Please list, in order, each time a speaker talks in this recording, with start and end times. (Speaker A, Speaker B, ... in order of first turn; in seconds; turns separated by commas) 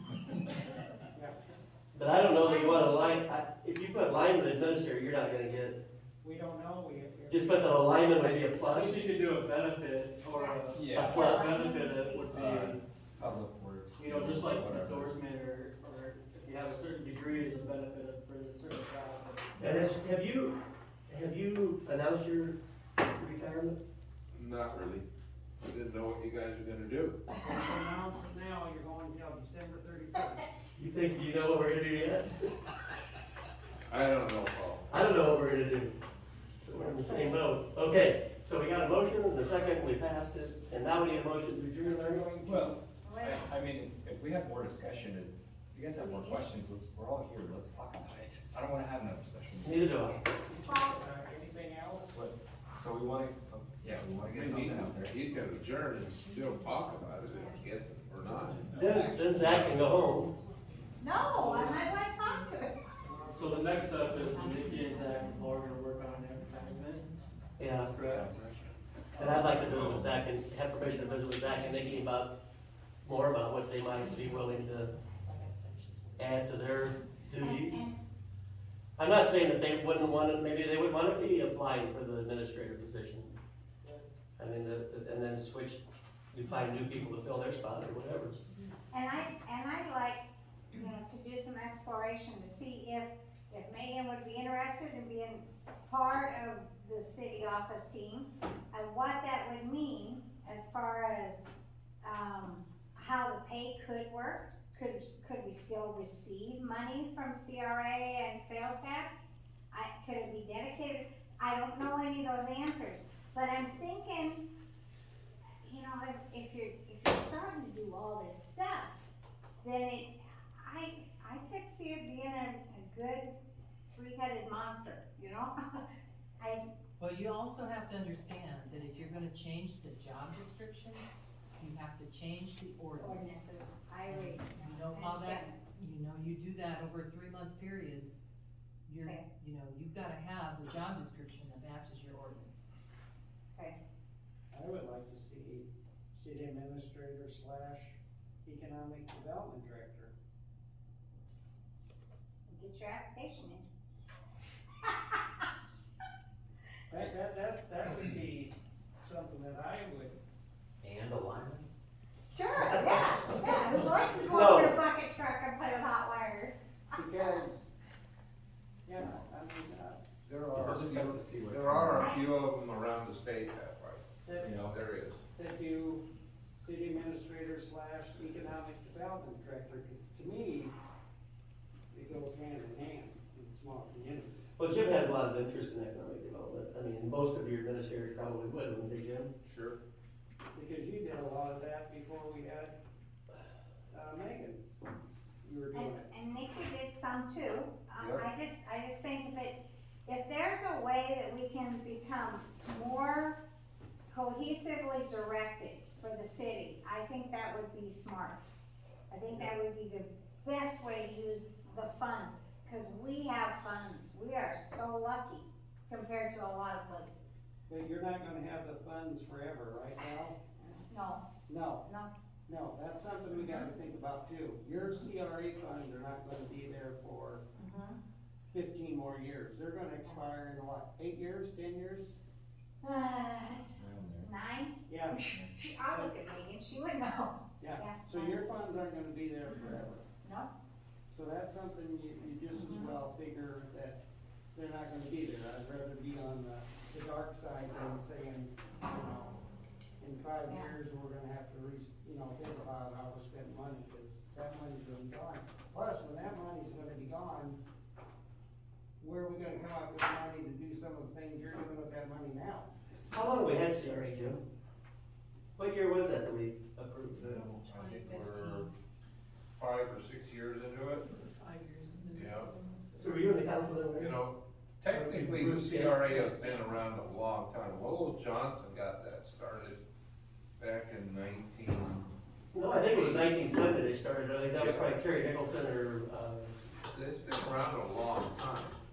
Speaker A: 1.9-5.8, Speaker B: 2.4-3.1, Speaker C: 6.2-7.9, Speaker A: 7.3-9.0, Speaker D: 8.7-10.9, Speaker B: 10.3-12.3, Speaker E: 10.7-11.7, Speaker A: 10.9-12.8, Speaker D: 11.6-12.8, Speaker E: 12.3-15.2, Speaker D: 14.0-19.8, Speaker A: 19.6-20.6, Speaker A: 21.1-23.8, Speaker F: 24.3-25.0, Speaker F: 25.6-27.2, Speaker C: 27.4-30.5, Speaker A: 30.8-32.3, Speaker F: 33.9-34.9, Speaker A: 34.9-35.9, Speaker A: 36.6-42.3, Speaker B: 37.0-37.4, Speaker C: 41.8-42.7, Speaker E: 42.4-50.1, Speaker B: 43.0-43.4, Speaker B: 46.0-46.4, Speaker A: 49.6-50.2, Speaker C: 50.4-52.2, Speaker B: 50.6-51.0, Speaker E: 52.1-55.2, Speaker F: 54.3-59.9, Speaker A: 58.7-60.3, Speaker D: 59.0-59.3, Speaker D: 59.8-62.5, Speaker B: 61.0-62.9, Speaker C: 63.0-64.3, Speaker D: 63.1-67.3, Speaker A: 67.6-68.3, Speaker E: 68.0-68.6, Speaker A: 69.2-72.3, Speaker D: 69.2-69.5, Speaker F: 69.6-70.0, Speaker D: 70.8-72.2, Speaker A: 73.0-74.9, Speaker D: 73.9-76.8, Speaker A: 76.2-77.9, Speaker B: 77.4-78.0, Speaker A: 79.0-83.3, Speaker A: 84.4-88.4, Speaker B: 88.9-101.5, Speaker B: 102.0-114.5, Speaker B: 115.6-119.1, Speaker B: 119.6-123.3, Speaker B: 123.9-125.8, Speaker B: 126.4-126.7, Speaker G: 127.0-131.1, Speaker G: 131.6-133.5, Speaker B: 133.0-135.6, Speaker G: 134.0-138.1, Speaker G: 138.9-142.6, Speaker B: 139.0-139.3, Speaker B: 143.5-143.8, Speaker C: 144.5-150.1, Speaker B: 152.5-153.7, Speaker C: 156.9-160.2, Speaker B: 162.3-167.4, Speaker A: 162.6-164.8, Speaker C: 166.9-167.7, Speaker C: 168.8-171.2, Speaker E: 170.5-172.1, Speaker F: 170.5-174.0, Speaker B: 172.0-172.3, Speaker C: 174.2-174.6, Speaker E: 174.4-174.8, Speaker F: 174.6-175.2, Speaker C: 175.3-180.7, Speaker C: 181.9-184.3, Speaker A: 184.6-189.3, Speaker F: 189.4-189.8, Speaker C: 190.5-192.8, Speaker C: 193.9-194.6, Speaker C: 195.4-196.1, Speaker B: 195.7-203.4, Speaker F: 198.0-198.2, Speaker B: 204.1-208.4, Speaker B: 209.1-217.4, Speaker C: 209.3-209.6, Speaker C: 217.7-220.3, Speaker B: 220.6-221.3, Speaker C: 221.5-221.8, Speaker B: 221.8-222.1, Speaker C: 222.5-227.4, Speaker B: 223.4-223.7, Speaker B: 227.5-228.0, Speaker C: 228.5-232.2, Speaker B: 232.8-238.4, Speaker E: 233.8-234.3, Speaker C: 234.9-235.3, Speaker C: 237.6-240.0, Speaker B: 239.4-240.5, Speaker C: 241.1-244.0, Speaker B: 242.5-242.9, Speaker C: 244.5-249.4, Speaker C: 250.0-257.6, Speaker B: 250.4-250.7, Speaker C: 259.0-262.7, Speaker A: 263.1-264.4, Speaker A: 265.6-267.2, Speaker F: 267.2-268.7, Speaker G: 267.6-268.6, Speaker F: 269.6-271.1, Speaker D: 271.1-273.4, Speaker G: 271.4-271.8, Speaker F: 272.1-272.5, Speaker G: 272.5-272.9, Speaker A: 273.0-274.2, Speaker F: 274.0-279.8, Speaker A: 274.9-276.6, Speaker F: 280.6-282.1, Speaker A: 282.5-286.6, Speaker F: 282.9-283.2, Speaker F: 284.6-284.9, Speaker F: 286.8-288.8